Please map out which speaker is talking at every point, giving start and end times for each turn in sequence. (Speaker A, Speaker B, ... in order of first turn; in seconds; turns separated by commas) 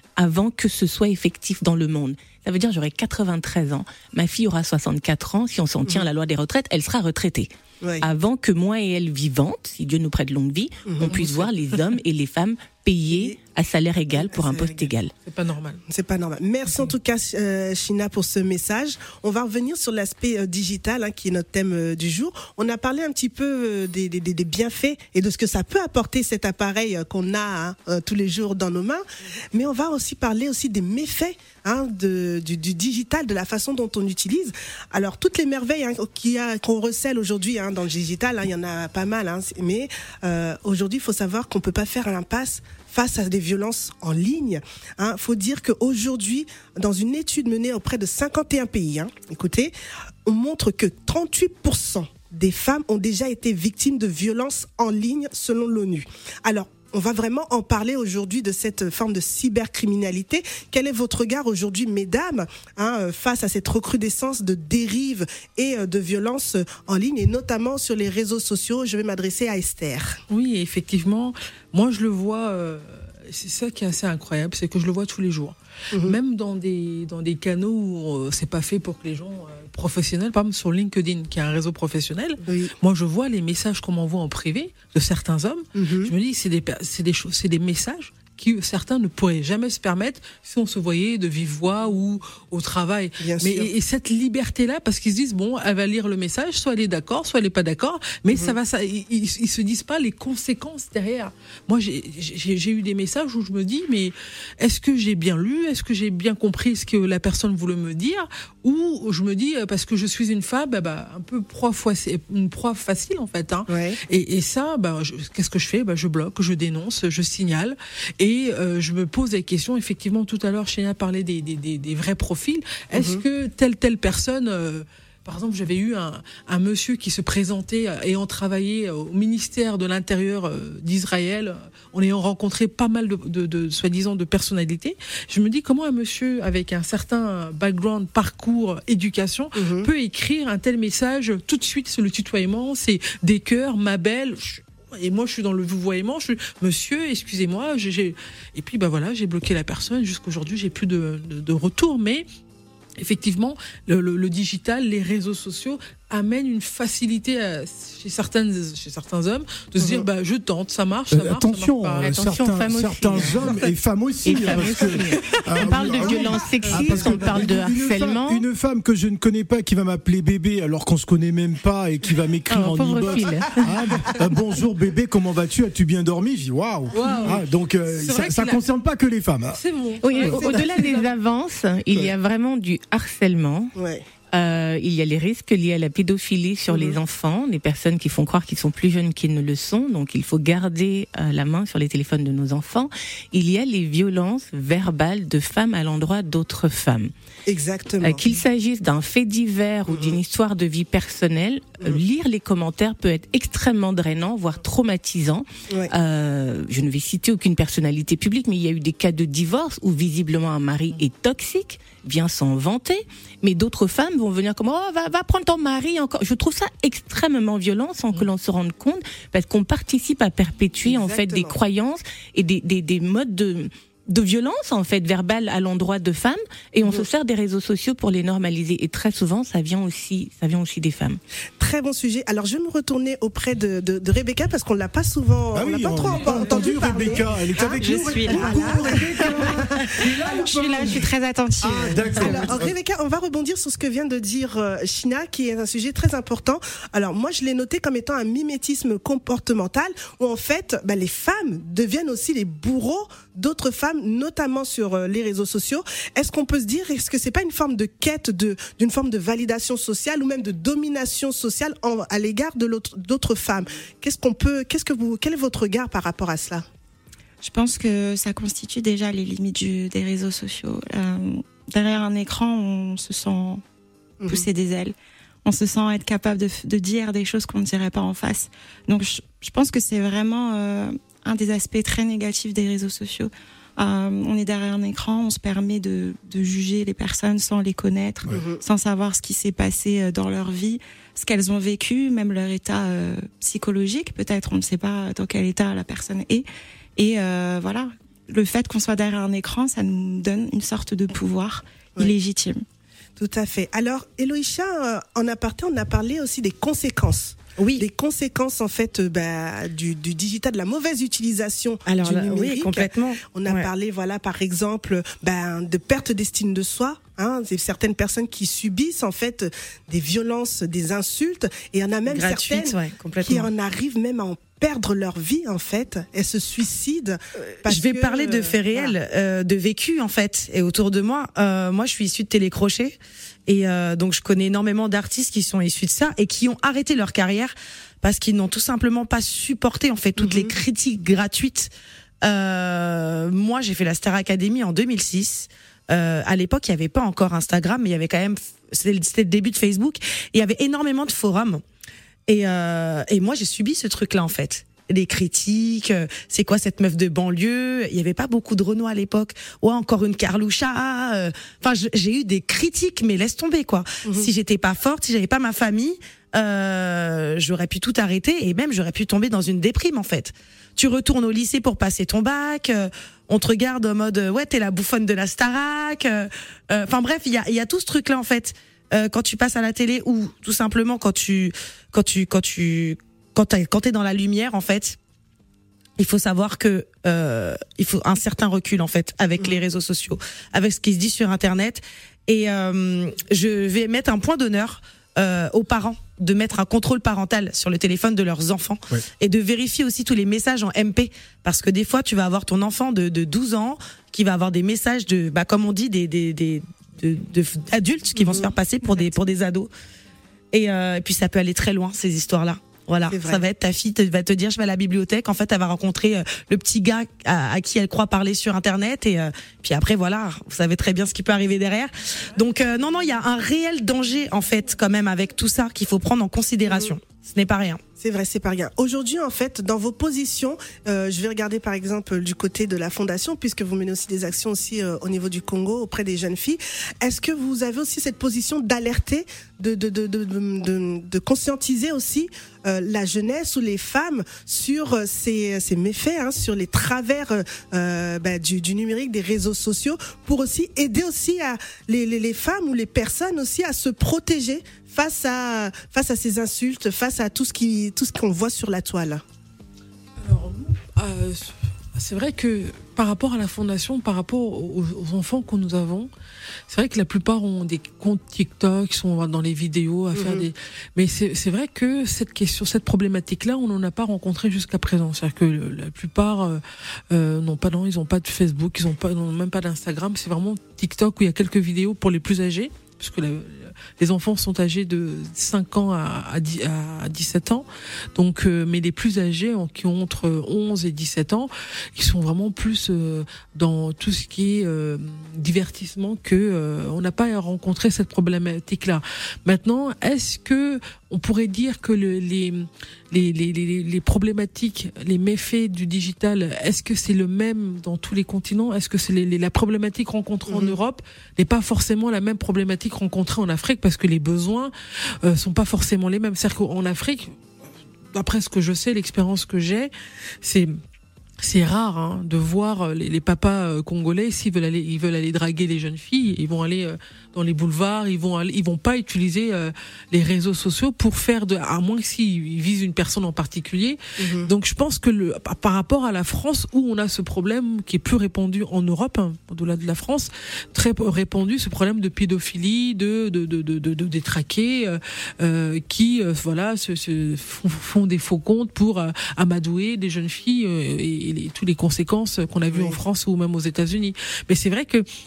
Speaker A: 0.2-7.5, Speaker A: 8.0-15.1, Speaker B: 10.9-11.4, Speaker B: 14.2-14.9, Speaker C: 15.2-15.8, Speaker B: 15.9-49.7, Speaker B: 50.2-70.2, Speaker C: 70.3-152.2, Speaker B: 75.9-76.2, Speaker B: 82.5-82.7, Speaker B: 85.7-86.1, Speaker B: 93.2-93.7, Speaker B: 113.7-114.0, Speaker B: 122.9-123.2, Speaker B: 139.6-139.9, Speaker C: 153.0-162.2, Speaker D: 161.1-179.6, Speaker A: 162.0-163.5, Speaker A: 164.2-168.4, Speaker A: 172.5-174.2, Speaker C: 176.9-178.6, Speaker C: 179.5-181.1, Speaker A: 180.0-183.7, Speaker D: 180.2-180.6, Speaker B: 183.8-184.0, Speaker A: 184.3-197.1, Speaker B: 186.7-187.0, Speaker B: 197.5-198.3, Speaker A: 198.0-231.2, Speaker B: 199.9-200.2, Speaker B: 220.8-221.5, Speaker B: 231.6-241.0, Speaker D: 235.5-241.1, Speaker E: 237.9-242.6, Speaker D: 241.6-242.7, Speaker B: 242.0-266.6, Speaker E: 267.4-273.6, Speaker E: 274.2-296.4, Speaker B: 288.3-288.6, Speaker E: 296.9-302.6, Speaker B: 303.2-329.0, Speaker F: 307.6-307.8, Speaker F: 311.9-313.7, Speaker F: 322.1-323.5, Speaker F: 327.6-341.7, Speaker B: 340.2-340.6, Speaker F: 342.2-351.6, Speaker F: 352.3-385.0, Speaker B: 364.0-364.3, Speaker F: 386.0-409.7, Speaker B: 408.1-409.1, Speaker F: 410.5-427.8, Speaker B: 413.1-413.4, Speaker B: 422.4-423.0, Speaker B: 426.7-426.9, Speaker B: 428.0-459.2, Speaker C: 460.2-466.1, Speaker C: 466.7-514.7, Speaker B: 470.1-470.5, Speaker B: 510.5-510.8, Speaker C: 515.2-517.4, Speaker C: 518.1-520.8, Speaker C: 521.4-555.1, Speaker B: 534.2-534.5, Speaker B: 552.7-553.0